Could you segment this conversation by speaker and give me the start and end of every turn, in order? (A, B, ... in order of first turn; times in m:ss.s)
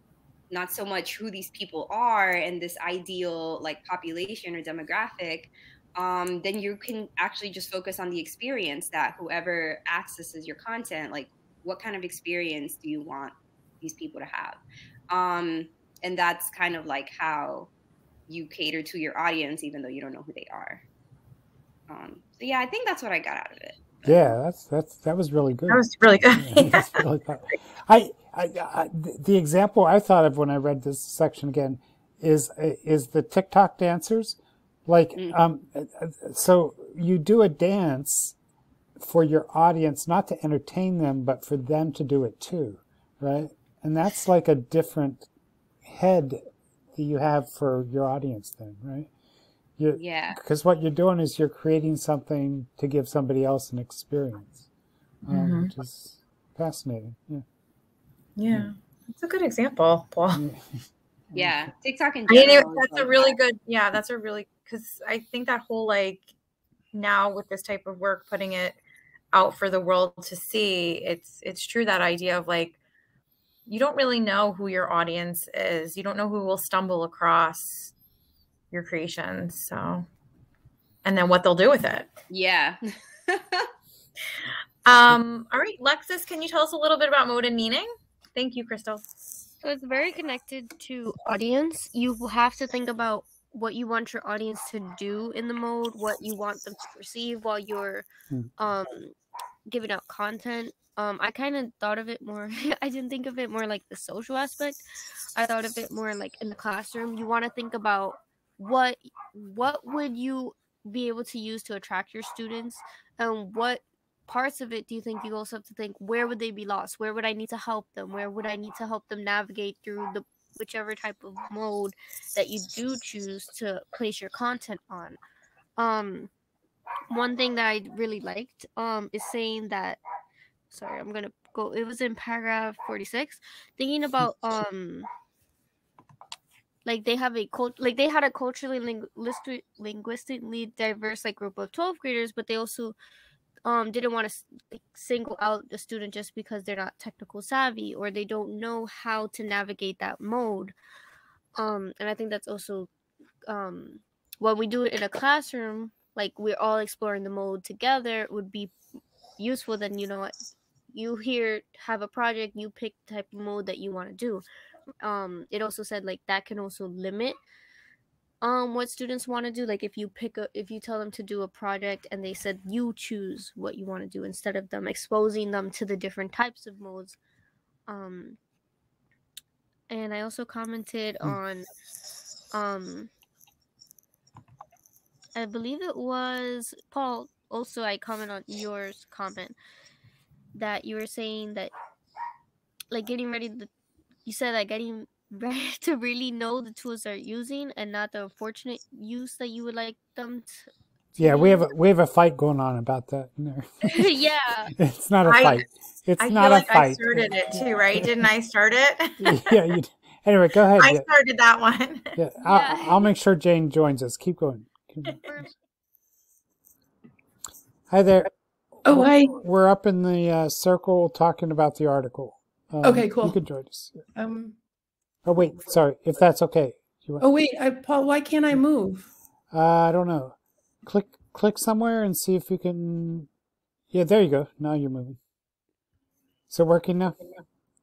0:00.5-0:14.6 A
0:15.1-0:17.7 A
0:18.3-0:20.8 A
0:21.9-0:24.3 A
0:24.0-0:25.8 B
0:25.7-0:27.0 C
0:26.4-0:38.4 B
0:39.0-0:45.3 B
0:45.8-0:46.4 B
0:46.9-0:49.1 B
0:49.8-0:54.7 B
0:49.9-0:50.4 A
0:55.3-0:57.4 B
0:55.3-0:55.7 C
0:58.4-1:00.4 C
1:00.3-1:00.6 B
1:01.3-1:01.7 B
1:01.4-1:03.3 A
1:02.3-1:06.3 C
1:06.9-1:08.8 C
1:09.3-1:12.8 C
1:13.7-1:17.9 C
1:18.7-1:20.1 C
1:21.0-1:22.1 C
1:22.3-1:23.7 A
1:24.8-1:29.0 C
1:29.6-1:38.1 D
1:38.6-1:39.1 D
1:39.7-1:44.8 D
1:45.4-2:05.2 D
2:05.8-2:06.3 D
2:07.1-2:10.0 D
2:10.7-2:15.1 D
2:16.8-2:23.0 D
2:23.6-2:30.7 D
2:31.6-2:32.9 D
2:33.5-2:38.7 D
2:39.4-2:40.3 D
2:40.9-2:44.4 D
2:45.0-2:47.4 D
2:48.4-2:57.2 D
2:57.9-2:58.4 D
2:59.9-3:01.7 D
3:02.5-3:03.1 D
3:05.4-3:09.6 D
3:10.5-3:11.7 D
3:12.9-3:13.7 D
3:14.3-3:21.7 D
3:21.2-3:24.2 B
3:23.8-3:24.7 D
3:24.8-3:28.2 B
3:25.3-3:25.6 C
3:26.2-3:29.8 C
3:29.2-3:31.1 B
3:30.8-3:32.2 C
3:32.2-3:35.2 B
3:32.5-3:33.1 D
3:35.2-3:35.5 D
3:37.9-3:44.0 B
3:38.8-3:39.4 E
3:42.8-3:43.4 E
3:44.2-3:44.6 E
3:45.3-3:47.2 B
3:47.2-3:49.1 E
3:49.5-3:53.3 B
3:53.9-3:55.2 B
3:56.5-3:57.2 B